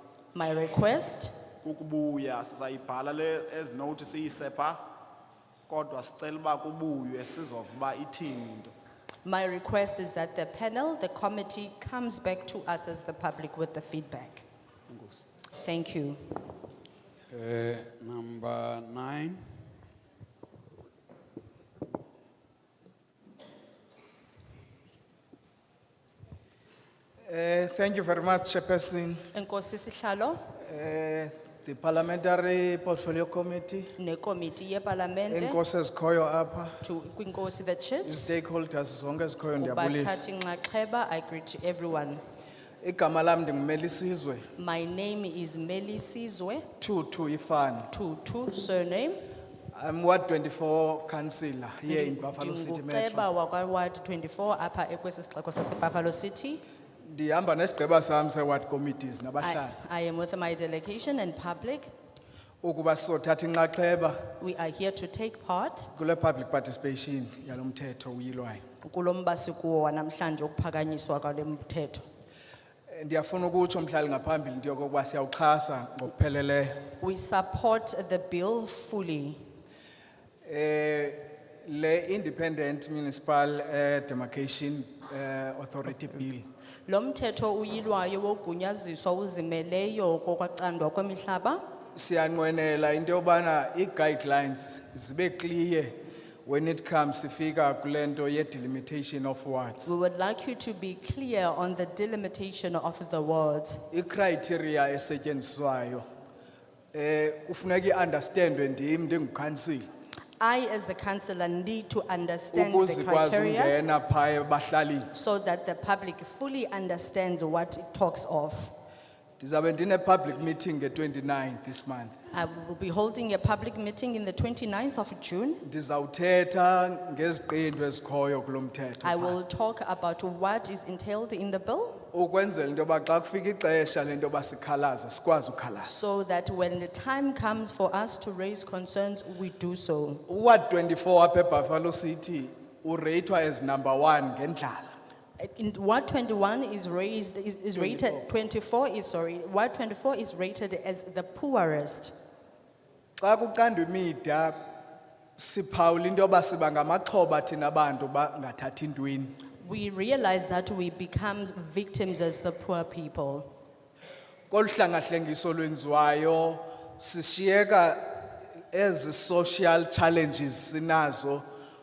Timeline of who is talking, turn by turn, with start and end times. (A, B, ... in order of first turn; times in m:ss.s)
0:00.3-0:01.3 A
0:01.6-0:04.8 B
0:05.7-0:08.7 B
0:09.2-0:14.4 A
0:15.6-0:16.3 A
0:17.3-0:19.4 C
0:27.2-0:29.3 D
0:29.3-0:30.5 A
0:30.6-0:33.9 D
0:34.0-0:35.6 A
0:35.3-0:36.8 D
0:36.8-0:38.3 A
0:38.0-0:40.2 D
0:39.6-0:42.2 A
0:42.8-0:44.4 D
0:44.6-0:46.7 A
0:46.8-0:47.9 D
0:47.9-0:49.2 A
0:49.7-0:53.3 D
0:51.9-0:56.6 A
0:57.0-0:59.7 D
0:59.4-1:01.9 A
1:02.6-1:04.3 D
1:04.4-1:05.9 A
1:06.0-1:08.6 D
1:08.8-1:12.0 A
1:12.9-1:16.9 D
1:17.0-1:19.4 A
1:20.4-1:26.4 D
1:26.8-1:31.6 A
1:31.9-1:39.9 D
1:39.8-1:43.8 A
1:43.9-1:46.0 D
1:46.9-1:49.9 D
1:50.4-1:53.8 A
1:52.5-1:55.1 D
1:55.1-1:58.7 A
1:59.4-2:02.1 D
2:02.3-2:05.6 A
2:05.6-2:09.4 D
2:09.0-2:12.0 A
2:12.1-2:16.0 D
2:15.8-2:20.2 A
2:20.3-2:24.9 D
2:25.4-2:32.1 A
2:27.8-2:28.2 D
2:33.2-2:34.8 D
2:35.4-2:39.4 D
2:39.6-2:43.5 A
2:44.5-2:51.4 D